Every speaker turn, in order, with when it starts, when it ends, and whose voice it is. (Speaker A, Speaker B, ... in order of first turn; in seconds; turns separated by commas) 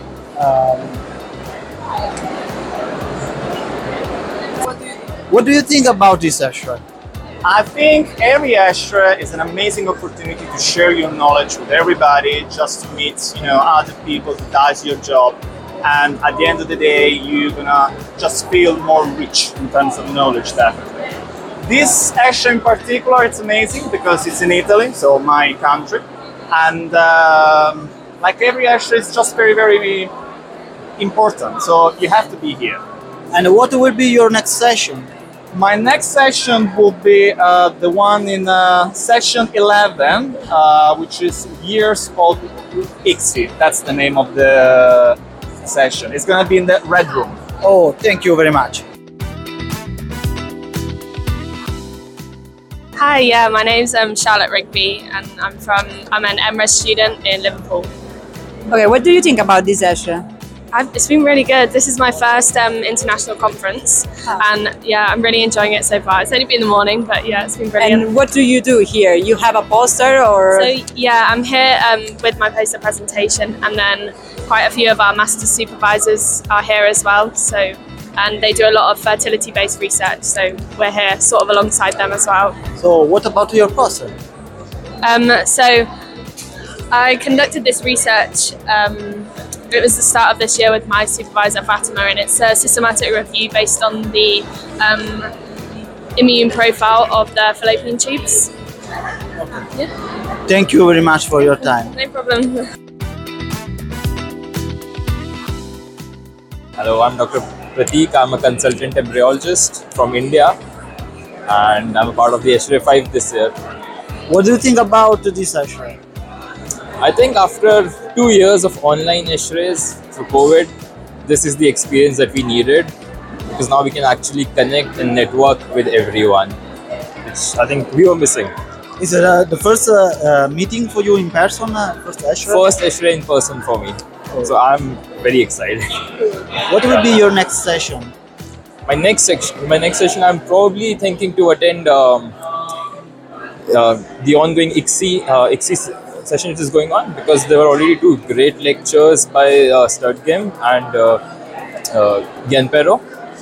Speaker A: 0.4-1.0, Speaker A: 5.3-6.8, Speaker B: 7.4-21.1, Speaker B: 21.6-30.1, Speaker B: 31.0-32.8, Speaker A: 33.3-35.1, Speaker B: 35.5-47.4, Speaker A: 47.6-48.8, Speaker C: 53.0-57.9, Speaker D: 58.7-60.3, Speaker C: 60.7-68.0, Speaker D: 67.8-70.7, Speaker C: 70.6-82.6, Speaker A: 82.8-84.2, Speaker C: 85.0-85.9, Speaker C: 86.9-95.3, Speaker C: 96.2-98.5, Speaker A: 99.4-99.7, Speaker A: 100.5-101.9, Speaker C: 101.9-102.6, Speaker E: 106.8-110.6, Speaker E: 111.5-113.5, Speaker A: 114.3-116.0, Speaker E: 117.0-120.7, Speaker E: 121.2-122.9, Speaker E: 123.5-126.6, Speaker E: 127.2-128.5, Speaker A: 129.0-132.7, Speaker E: 132.5-135.9, Speaker A: 136.7-138.1, Speaker E: 138.9-142.3, Speaker E: 143.7-151.2, Speaker E: 151.9-153.0